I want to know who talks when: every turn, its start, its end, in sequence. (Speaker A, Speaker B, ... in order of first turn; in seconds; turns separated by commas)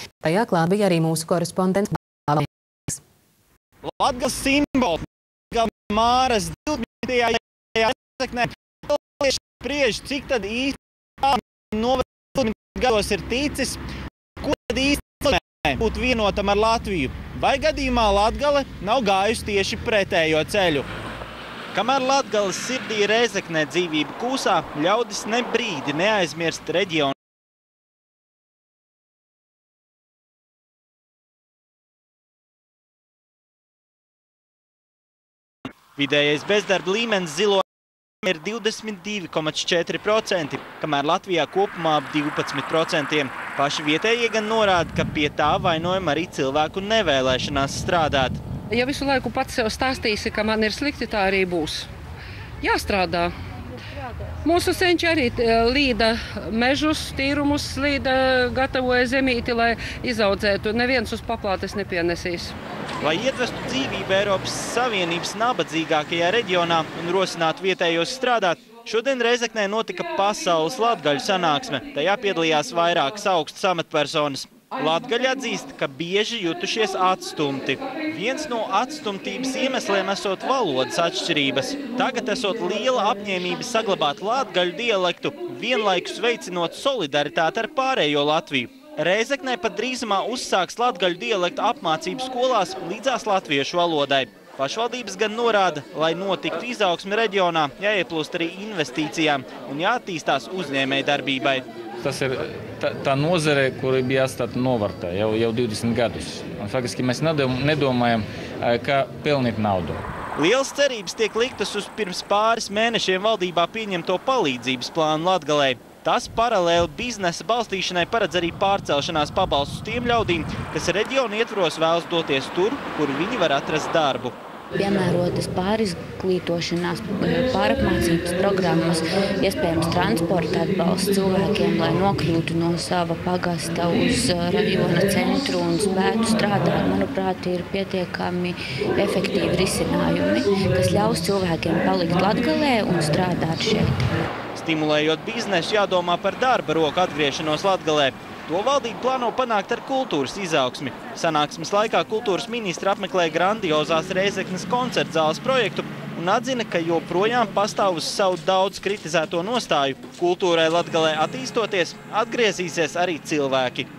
Speaker A: 0.2-3.0, Speaker B: 3.9-13.8, Speaker B: 14.4-20.9, Speaker B: 21.7-27.1, Speaker B: 36.0-37.6, Speaker B: 38.2-48.4, Speaker C: 48.7-51.9, Speaker C: 52.6-53.3, Speaker C: 54.4-62.5, Speaker B: 63.0-101.6, Speaker D: 102.0-110.0, Speaker B: 110.4-124.3, Speaker E: 124.7-144.1, Speaker B: 144.5-163.9